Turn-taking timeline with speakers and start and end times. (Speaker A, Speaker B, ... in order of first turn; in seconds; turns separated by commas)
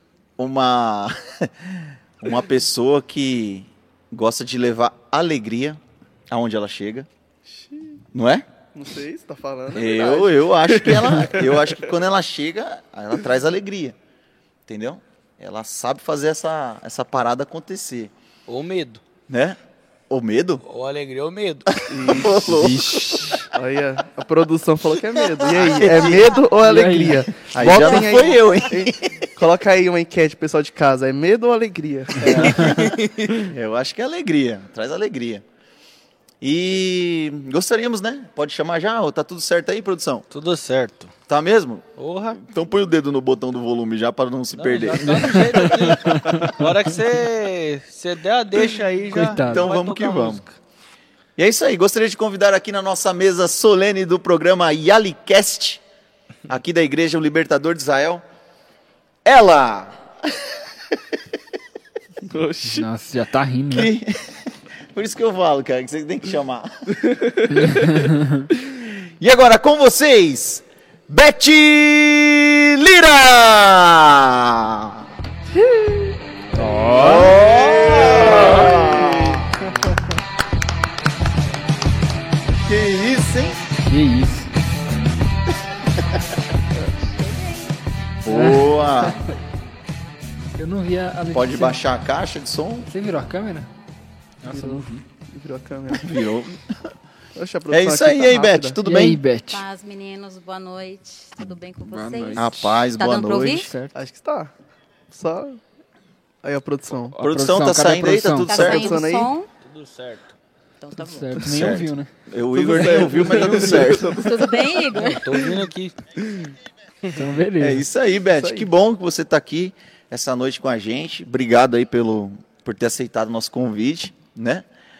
Speaker A: 0.4-7.1, Speaker B: 7.5-8.0, Speaker A: 8.1-8.4, Speaker B: 8.7-11.7, Speaker A: 9.7-13.9, Speaker A: 14.7-18.1, Speaker C: 18.5-19.0, Speaker A: 19.3-19.6, Speaker A: 20.1-20.6, Speaker C: 20.6-21.7, Speaker B: 21.9-22.4, Speaker A: 21.9-22.9, Speaker D: 22.4-23.5, Speaker B: 23.5-32.7, Speaker A: 25.5-26.3, Speaker D: 26.6-28.0, Speaker A: 27.5-29.2, Speaker A: 32.2-32.9, Speaker C: 32.6-33.3, Speaker A: 33.4-35.4, Speaker A: 36.4-40.3, Speaker C: 40.3-41.1, Speaker A: 41.3-45.9, Speaker C: 42.0-42.4, Speaker C: 44.5-50.5, Speaker D: 46.0-46.5, Speaker D: 49.1-49.7, Speaker A: 49.2-50.4, Speaker A: 51.4-55.8, Speaker A: 56.5-58.2, Speaker A: 59.2-60.6, Speaker B: 62.2-62.9, Speaker D: 62.6-63.9, Speaker A: 63.7-67.0, Speaker B: 67.2-67.9, Speaker D: 67.6-68.5, Speaker A: 69.2-75.0, Speaker B: 75.5-76.2, Speaker D: 76.5-79.1, Speaker A: 77.0-79.5, Speaker A: 82.6-83.6, Speaker D: 83.9-84.5, Speaker A: 88.2-89.2, Speaker D: 88.2-88.8, Speaker D: 90.6-91.7, Speaker A: 91.3-92.9, Speaker D: 92.9-93.7, Speaker D: 94.4-95.0, Speaker B: 94.5-96.1, Speaker A: 95.9-96.8, Speaker B: 97.3-98.8, Speaker A: 97.7-99.2, Speaker D: 98.8-99.6, Speaker E: 99.5-103.7, Speaker D: 101.8-102.7, Speaker A: 102.3-103.7, Speaker D: 103.6-103.9, Speaker B: 103.9-104.5, Speaker B: 105.1-105.6, Speaker B: 106.4-107.2, Speaker D: 107.1-108.7, Speaker A: 107.2-109.0, Speaker E: 108.4-109.5, Speaker B: 108.5-109.3, Speaker C: 109.6-110.3, Speaker E: 110.8-111.4, Speaker D: 111.0-112.1, Speaker A: 111.4-114.1, Speaker B: 112.5-114.7, Speaker E: 113.9-115.5, Speaker C: 114.9-115.9, Speaker D: 117.2-117.8, Speaker A: 117.6-124.7, Speaker B: 118.3-118.7